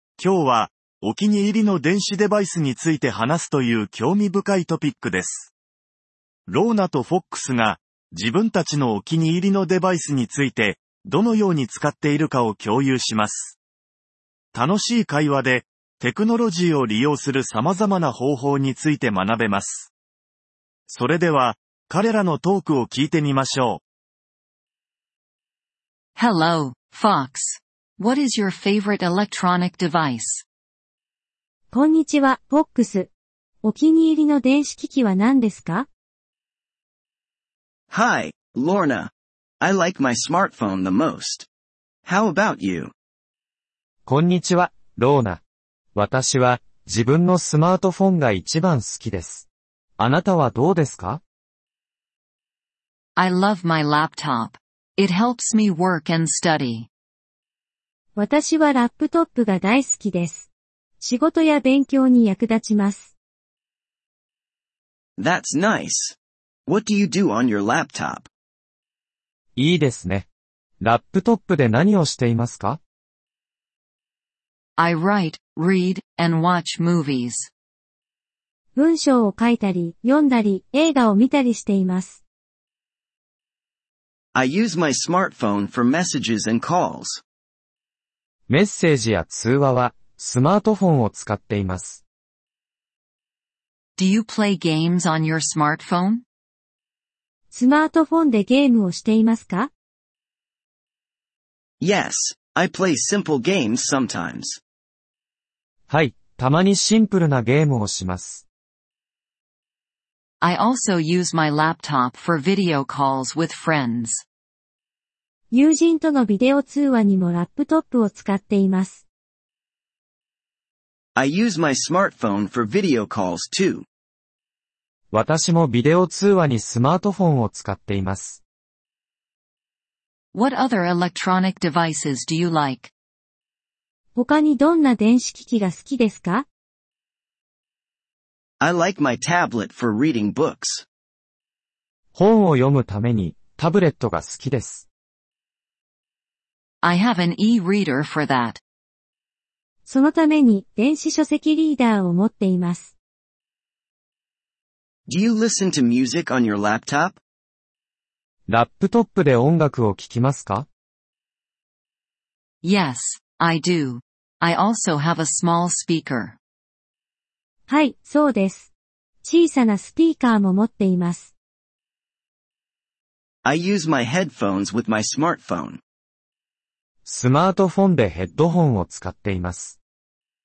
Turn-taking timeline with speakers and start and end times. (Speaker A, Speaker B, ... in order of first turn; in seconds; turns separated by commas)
Speaker A: 0.2-5.5, Speaker A: 6.5-13.6, Speaker A: 14.5-19.9, Speaker A: 20.9-23.8, Speaker B: 26.2-30.4, Speaker C: 31.7-33.1, Speaker C: 33.6-35.9, Speaker D: 37.9-41.5, Speaker D: 42.0-42.9, Speaker E: 44.1-45.4, Speaker E: 46.0-49.5, Speaker E: 50.0-51.2, Speaker B: 53.2-56.9, Speaker C: 58.1-60.5, Speaker C: 61.0-63.1, Speaker D: 65.2-66.2, Speaker D: 66.7-68.3, Speaker E: 69.6-70.3, Speaker E: 70.8-72.8, Speaker B: 74.8-77.5, Speaker C: 78.8-82.2, Speaker D: 84.3-87.2, Speaker E: 88.5-92.0, Speaker B: 94.0-96.2, Speaker C: 97.5-99.7, Speaker D: 101.8-104.6, Speaker E: 105.9-108.4, Speaker B: 110.4-114.2, Speaker C: 115.5-119.0, Speaker D: 121.2-123.8, Speaker E: 125.1-128.4, Speaker B: 130.3-132.9, Speaker C: 134.2-136.5, Speaker D: 138.6-140.8, Speaker E: 142.2-144.9, Speaker B: 146.8-148.6, Speaker C: 149.8-152.9, Speaker D: 155.1-157.2, Speaker E: 158.5-160.7, Speaker B: 162.6-166.4, Speaker C: 167.7-168.7, Speaker C: 169.2-171.3, Speaker D: 173.4-175.8, Speaker E: 177.1-179.8